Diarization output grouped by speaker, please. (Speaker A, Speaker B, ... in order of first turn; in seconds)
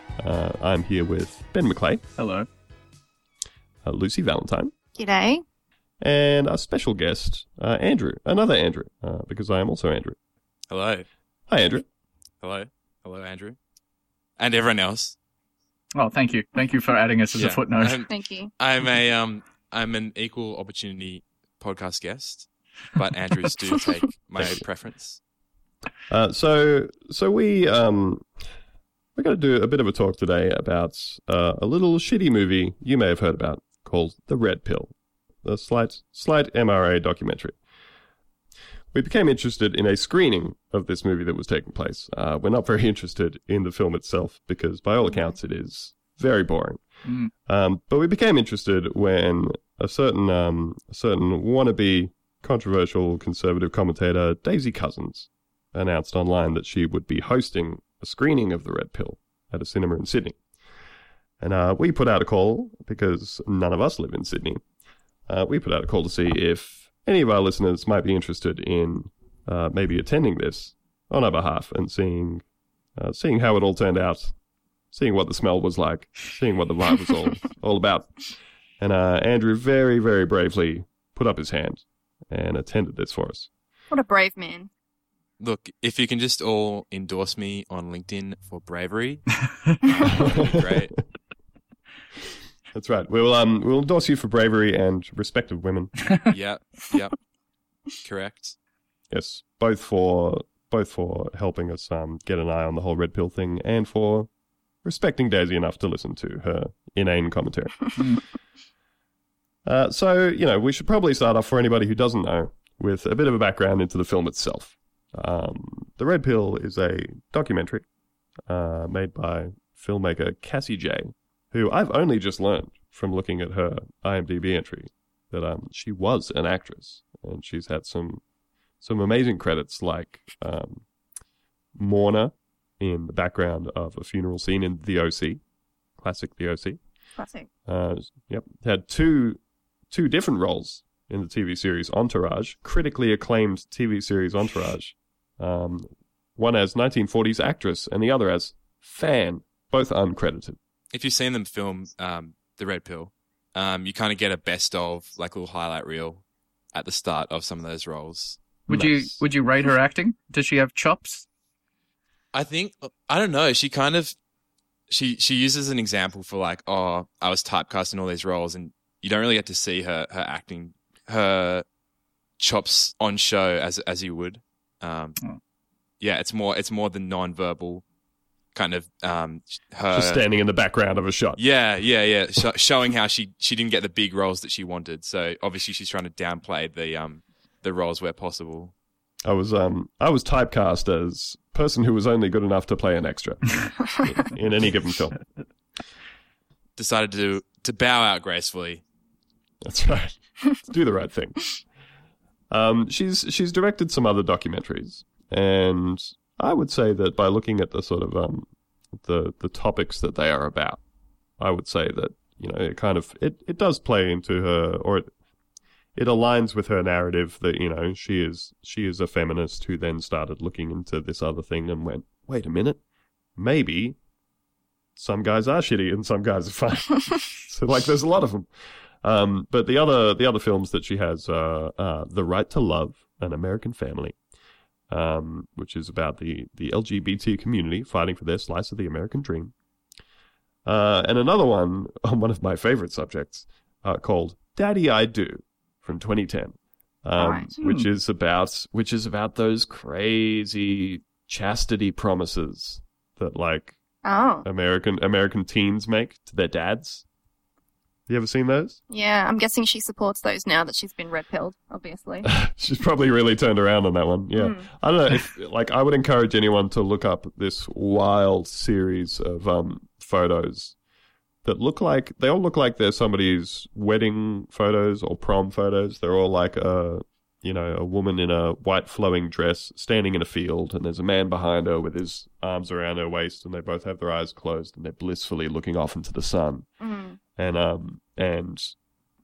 Speaker A: 0.2-2.0, 3.8-4.7, 6.0-10.2, 11.5-11.8, 24.4-24.6, 26.1-28.3, 29.2-37.6, 38.9-46.8, 47.5-60.4, 61.4-64.6, 65.3-72.4, 73.0-74.3, 74.9-78.2, 78.8-83.5, 90.2-90.7, 92.7-95.9, 99.1-104.3, 104.8-108.0, 109.7-117.8, 118.5-128.2, 128.8-130.8, 131.8-135.4, 136.0-136.8, 137.7-145.9, 146.4-150.6, 158.7-159.2, 179.9-181.4, 189.2-195.2, 199.6-201.5, 202.5-208.5, 209.0-210.8, 211.4-215.1, 215.9-222.8, 223.4-224.0, 225.0-228.5, 229.0-234.2, 234.9-239.5, 240.7-253.8, 254.4-257.0, 258.1-258.8, 262.2-270.8, 271.4-286.7, 287.4-288.8
Speaker B: 2.2-2.5, 16.0-18.0, 47.1-47.3, 158.7-161.3
Speaker C: 5.0-5.4, 18.1-18.5, 83.9-84.7, 137.2-137.5, 247.2-247.9, 254.0-254.5, 258.9-262.3, 264.4-264.7, 286.8-287.2
Speaker D: 10.7-11.1, 12.4-13.6, 14.4-15.2, 17.4-25.2, 85.4-89.3, 89.8-91.0, 96.3-97.2, 98.0-98.5, 150.9-158.4, 162.3-164.2, 164.9-171.6, 172.4-175.2, 176.0-177.8, 178.5-180.2, 181.4-188.7, 196.8-198.8